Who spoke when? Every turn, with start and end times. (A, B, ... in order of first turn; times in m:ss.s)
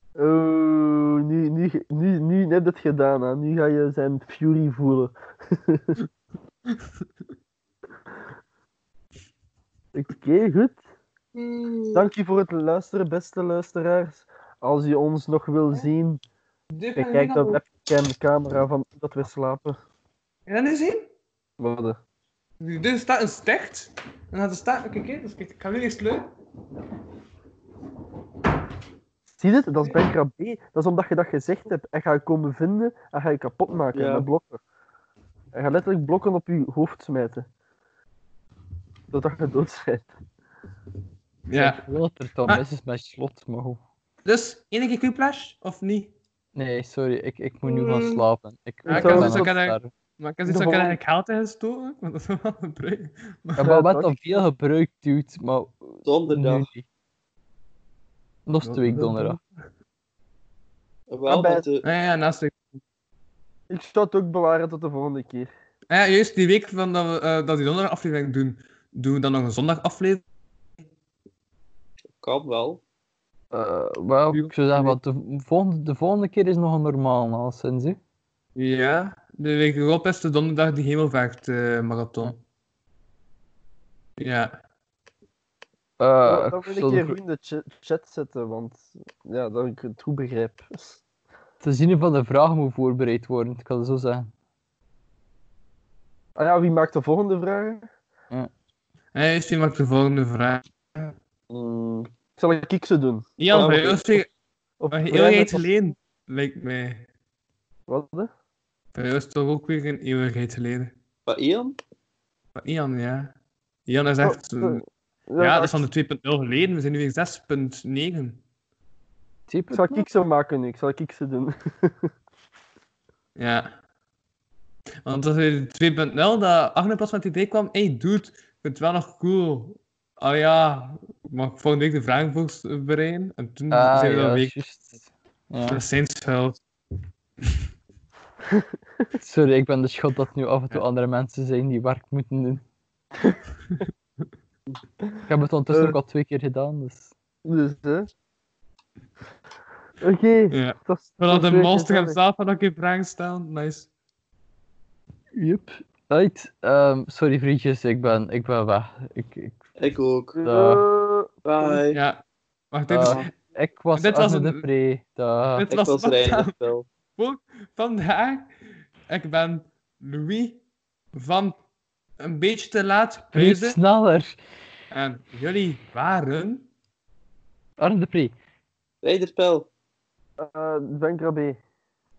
0:00.2-0:06.0 A
0:09.9-0:10.8 A
0:11.3-0:12.0 B
0:11.9-0:16.2 A
0:16.7-0:17.7 B
0:16.9-0:19.8 A
0:20.5-0:21.1 B
0:21.6-0:22.0 A
0:22.6-0:26.3 B
0:29.4-0:34.6 A
0:33.9-0:34.3 C
0:35.5-0:37.5 A
0:39.1-0:40.1 A
0:41.5-0:41.8 B
0:41.5-0:43.8 D
0:44.2-0:46.1 B
0:46.6-0:49.9 D
0:47.6-0:48.2 B
0:48.8-0:53.7 B
0:48.9-0:49.5 A
0:50.4-0:51.0 A
0:53.6-0:56.8 D
0:53.6-0:54.1 A
0:56.0-0:56.7 C
0:58.5-0:59.4 D
0:58.6-0:59.4 B
1:01.1-1:01.8 C
1:01.3-1:01.6 A
1:01.8-1:02.8 B
1:03.7-1:05.5 A
1:05.9-1:10.2 B
1:12.2-1:12.8 C
1:13.5-1:18.0 D
1:14.3-1:14.9 B
1:18.6-1:22.4 B
1:24.2-1:24.6 B
1:26.0-1:27.2 D
1:26.2-1:31.0 A
1:31.6-1:34.3 D
1:36.4-1:37.8 A
1:39.1-1:41.1 B
1:41.5-1:43.9 A
1:43.4-1:44.3 B
1:43.5-1:44.0 C
1:44.8-1:45.6 A
1:44.9-1:47.0 B
1:47.9-1:48.3 A
1:48.9-1:50.9 B
1:51.2-1:51.8 C
1:52.6-1:53.3 B
1:53.8-1:54.8 B
1:54.2-1:55.8 A
1:55.4-1:58.4 B
1:59.5-2:00.1 D
1:59.7-2:02.1 A
2:03.4-2:03.7 B
2:05.0-2:14.6 B
2:13.7-2:15.8 D
2:15.7-2:16.6 B
2:19.2-2:22.6 D
2:25.0-2:26.0 A
2:25.3-2:27.1 D
2:27.4-2:28.1 A
2:30.0-2:32.2 A
2:30.5-2:33.9 B
2:35.4-2:39.6 D
2:39.8-2:40.4 C
2:40.3-2:41.8 A
2:40.4-2:40.9 D
2:41.4-2:42.0 C
2:41.9-2:43.4 B
2:42.9-2:45.7 D
2:43.9-2:44.6 B
2:45.5-2:46.6 B
2:45.7-2:46.9 C
2:47.2-2:48.5 B
2:49.1-2:50.6 B
2:51.1-2:51.6 B
2:52.2-2:53.8 B
2:53.3-2:54.3 D
2:54.9-2:56.7 B
2:57.8-2:58.3 D
2:59.0-2:59.7 C
3:00.4-3:01.6 A